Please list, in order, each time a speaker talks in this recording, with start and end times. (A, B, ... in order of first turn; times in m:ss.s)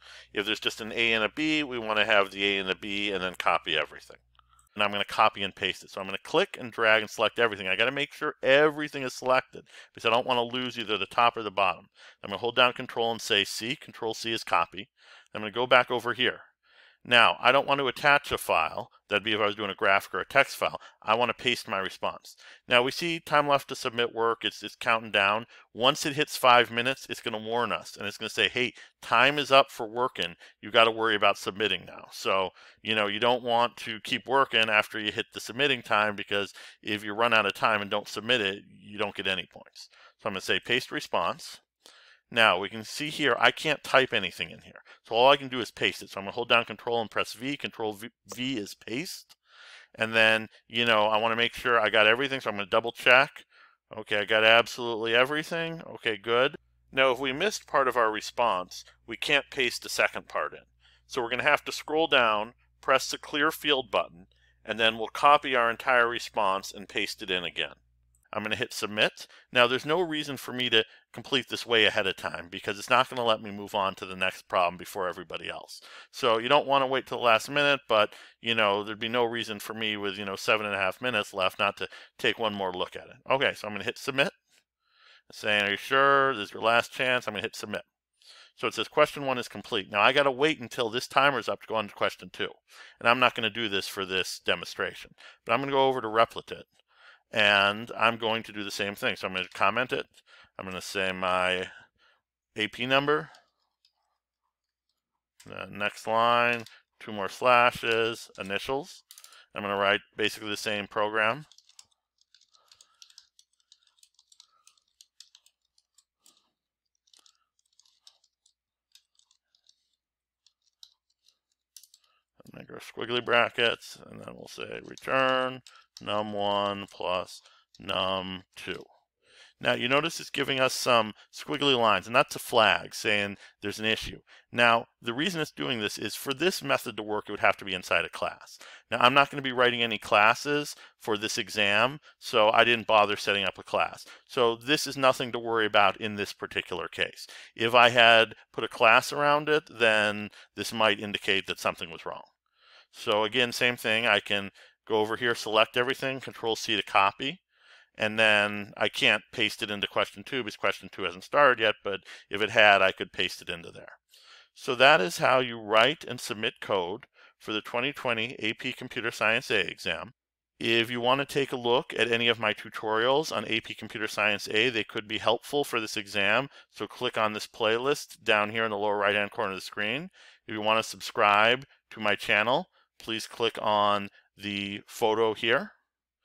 0:00.3-0:04.2 A
0:04.8-0:16.5 A
0:17.0-0:41.6 A
0:42.3-0:49.4 A
0:50.0-1:07.8 A
1:08.3-1:24.4 A
1:25.3-1:27.9 A
1:28.6-1:36.7 A
1:37.3-1:41.7 A
1:42.6-1:43.3 A
1:45.4-1:51.5 A
2:02.4-2:08.9 A
2:09.6-2:32.3 A
2:32.9-2:37.4 A
2:38.0-2:44.0 A
2:44.6-3:05.8 A